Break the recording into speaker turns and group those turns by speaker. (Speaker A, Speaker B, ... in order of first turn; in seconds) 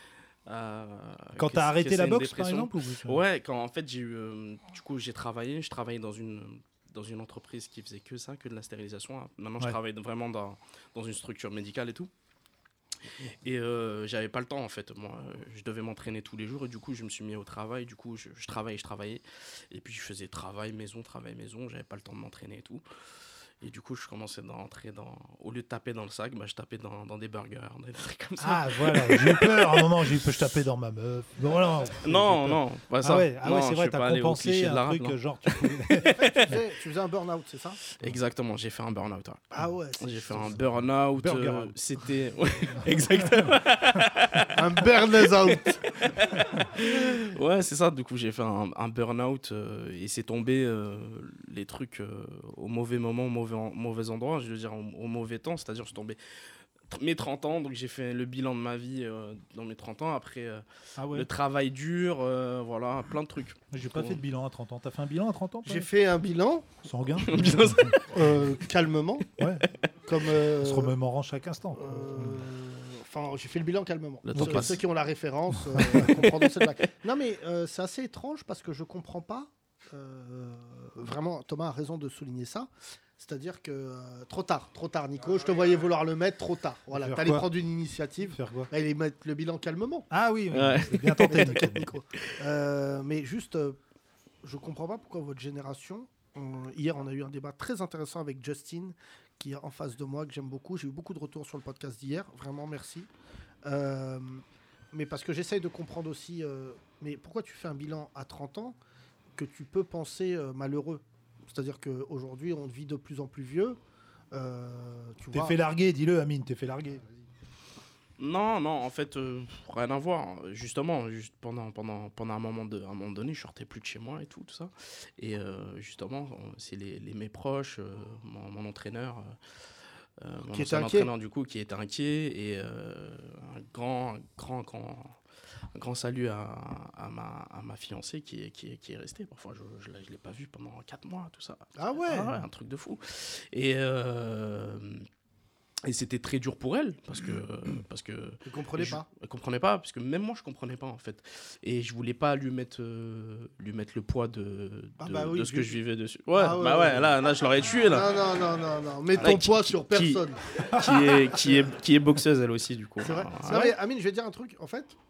Speaker A: 0.5-12.1, 13.4-22.8, 23.6-29.9, 32.0-36.5, 37.9-56.2, 56.9-64.2, 67.2-68.1, 74.2-74.8, 76.0-76.7, 90.5-92.3, 118.2-129.4, 130.2-135.2, 135.8-145.1, 145.8-158.2, 159.2-163.8
Speaker B: 1.4-3.2, 28.4-36.5, 41.2-41.8, 43.2-43.5, 61.0-61.3, 63.7-65.9, 66.8-68.0, 69.4-69.7, 70.6-72.5, 74.4-74.7, 75.7-76.1, 86.9-87.5, 88.3-88.7, 90.1-91.9, 115.3-117.1, 160.7-161.3
Speaker C: 36.0-37.8, 39.5-40.7, 44.5-45.8, 65.6-66.7, 68.0-69.3, 70.1-70.9, 71.8-90.1, 91.3-93.8, 94.4-103.1, 103.7-108.8, 109.4-113.8, 114.3-115.6, 130.5-131.1, 141.8-142.4, 148.4-149.1, 155.0-155.8, 156.3-157.1, 157.9-160.4, 163.0-164.9